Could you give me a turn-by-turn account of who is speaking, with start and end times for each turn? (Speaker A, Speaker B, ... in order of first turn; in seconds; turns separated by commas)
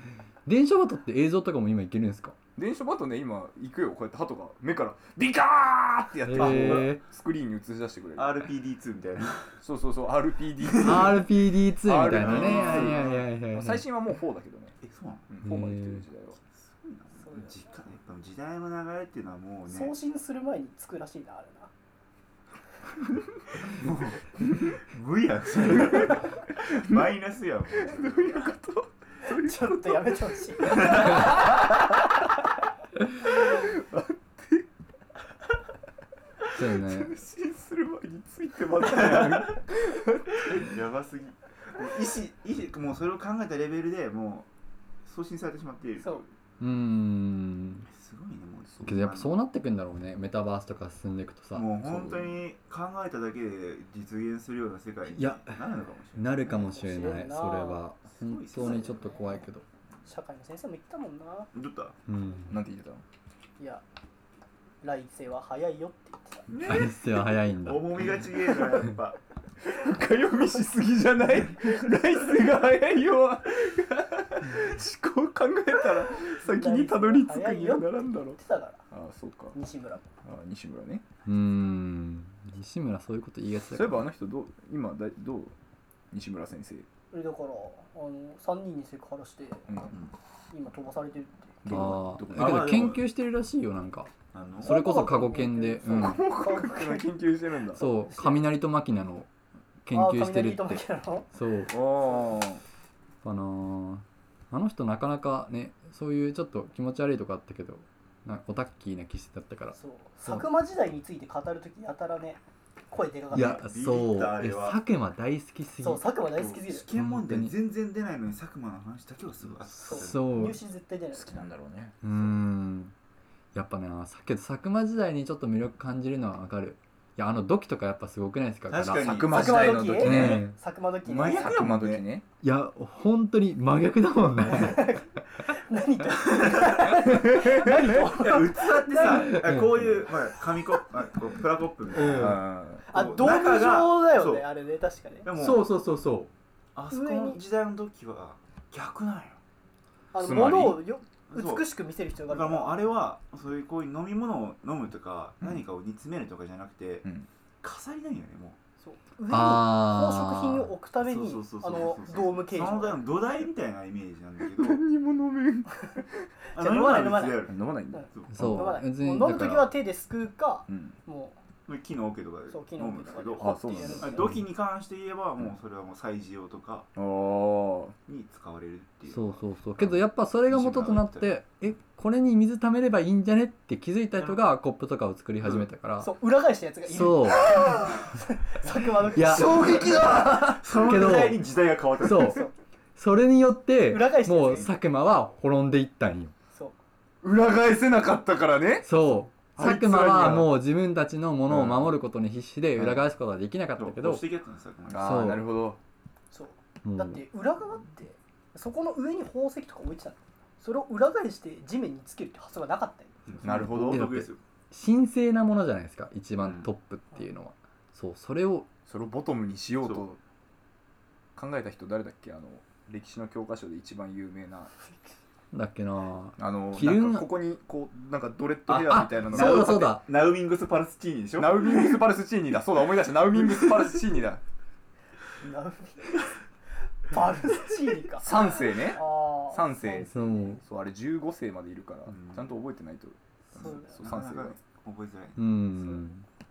Speaker A: 0.5-2.4, Speaker B: 2.6-8.5, Speaker A: 6.3-7.0, Speaker C: 6.4-6.9, Speaker C: 8.2-9.5, Speaker B: 9.6-11.3, Speaker A: 10.8-13.9, Speaker C: 10.8-11.2, Speaker B: 11.8-14.8, Speaker C: 12.2-13.3, Speaker C: 14.8-15.4, Speaker B: 15.3-16.4, Speaker A: 15.4-16.0, Speaker C: 16.5-20.0, Speaker D: 17.2-17.6, Speaker D: 19.7-21.7, Speaker C: 23.6-28.5, Speaker B: 26.8-27.1, Speaker B: 27.8-32.3, Speaker D: 29.2-31.1, Speaker C: 30.6-31.3, Speaker B: 33.2-34.6, Speaker A: 36.5-37.1, Speaker B: 36.6-40.4, Speaker C: 38.8-39.5, Speaker C: 40.5-44.5, Speaker C: 45.0-46.3, Speaker A: 46.6-47.9, Speaker C: 47.9-49.4, Speaker A: 48.8-52.4, Speaker C: 51.5-57.0, Speaker A: 55.1-59.6, Speaker D: 56.5-57.9, Speaker C: 58.2-59.0, Speaker D: 58.5-59.5, Speaker D: 60.0-61.5, Speaker C: 61.5-62.0, Speaker A: 62.1-62.6, Speaker B: 62.5-63.0, Speaker D: 63.6-63.8, Speaker D: 64.8-66.5, Speaker C: 66.5-69.2, Speaker A: 66.6-68.1, Speaker B: 69.6-78.4, Speaker D: 76.3-78.8, Speaker B: 78.9-79.5, Speaker D: 79.5-80.0, Speaker B: 80.2-81.1, Speaker A: 81.2-84.1, Speaker B: 83.6-85.5, Speaker B: 86.1-86.9, Speaker D: 87.1-89.9, Speaker D: 90.5-91.5, Speaker B: 91.6-92.9, Speaker A: 91.7-96.3, Speaker C: 92.3-93.0, Speaker C: 94.3-94.8, Speaker D: 94.6-97.1, Speaker B: 95.9-97.9, Speaker D: 97.7-98.5, Speaker A: 97.8-99.3, Speaker A: 99.8-100.8, Speaker D: 99.9-101.3, Speaker A: 101.3-101.7, Speaker B: 101.7-102.6, Speaker A: 103.2-110.5, Speaker D: 109.8-113.6, Speaker A: 113.3-116.1, Speaker C: 113.3-114.8, Speaker D: 115.8-116.9, Speaker C: 116.4-120.3, Speaker A: 116.9-117.5, Speaker A: 119.8-120.6, Speaker D: 119.8-121.4, Speaker B: 121.1-122.0, Speaker A: 122.0-122.9, Speaker A: 123.5-129.1, Speaker C: 128.7-130.4, Speaker B: 129.0-130.5, Speaker D: 129.3-131.6, Speaker A: 129.9-130.6, Speaker C: 131.1-132.1, Speaker B: 131.1-132.2, Speaker A: 132.4-134.8, Speaker D: 134.5-139.4, Speaker C: 136.3-136.9, Speaker B: 137.4-137.8, Speaker C: 137.6-144.5, Speaker A: 139.0-139.7, Speaker A: 141.9-142.5, Speaker B: 142.1-142.9, Speaker D: 142.9-145.3, Speaker C: 145.2-145.7, Speaker A: 145.3-146.3, Speaker C: 146.8-149.4, Speaker D: 146.9-147.4, Speaker D: 150.1-152.8, Speaker B: 150.2-150.8, Speaker C: 151.3-151.7, Speaker C: 152.3-157.1, Speaker C: 157.6-158.6, Speaker D: 158.8-163.0, Speaker A: 159.3-160.7, Speaker C: 161.0-164.8, Speaker B: 164.5-166.3, Speaker C: 166.5-167.6, Speaker D: 166.6-171.4, Speaker B: 167.5-168.1, Speaker C: 168.1-168.7, Speaker A: 168.3-169.7, Speaker B: 170.7-171.0, Speaker C: 171.7-176.9, Speaker D: 172.5-174.4, Speaker B: 173.4-174.3, Speaker B: 177.0-177.9, Speaker C: 178.1-181.4, Speaker A: 179.1-186.1, Speaker C: 184.1-184.4, Speaker D: 186.0-191.3, Speaker A: 186.9-187.5, Speaker A: 189.1-191.4, Speaker C: 189.3-192.4, Speaker A: 192.0-196.3, Speaker D: 192.1-192.5, Speaker D: 193.9-194.7, Speaker C: 194.4-194.7, Speaker B: 197.2-198.9, Speaker A: 198.8-204.2, Speaker B: 199.6-200.6, Speaker B: 201.5-202.0, Speaker B: 202.8-203.1, Speaker C: 203.8-205.3, Speaker B: 204.9-205.8, Speaker A: 205.0-205.5, Speaker D: 206.3-213.2, Speaker A: 206.8-207.2, Speaker C: 213.3-214.4, Speaker B: 213.4-214.1, Speaker A: 213.9-218.7, Speaker C: 216.4-216.7, Speaker B: 218.9-220.2, Speaker B: 221.4-224.7, Speaker A: 225.5-227.3, Speaker B: 226.4-230.0, Speaker C: 228.7-232.1, Speaker A: 228.9-230.1, Speaker B: 231.4-234.4, Speaker C: 233.5-233.8, Speaker D: 235.4-236.2, Speaker D: 237.1-240.0, Speaker B: 238.2-244.6, Speaker A: 240.0-240.6, Speaker C: 242.1-242.6, Speaker C: 243.5-245.8, Speaker D: 243.6-244.0, Speaker A: 245.4-246.2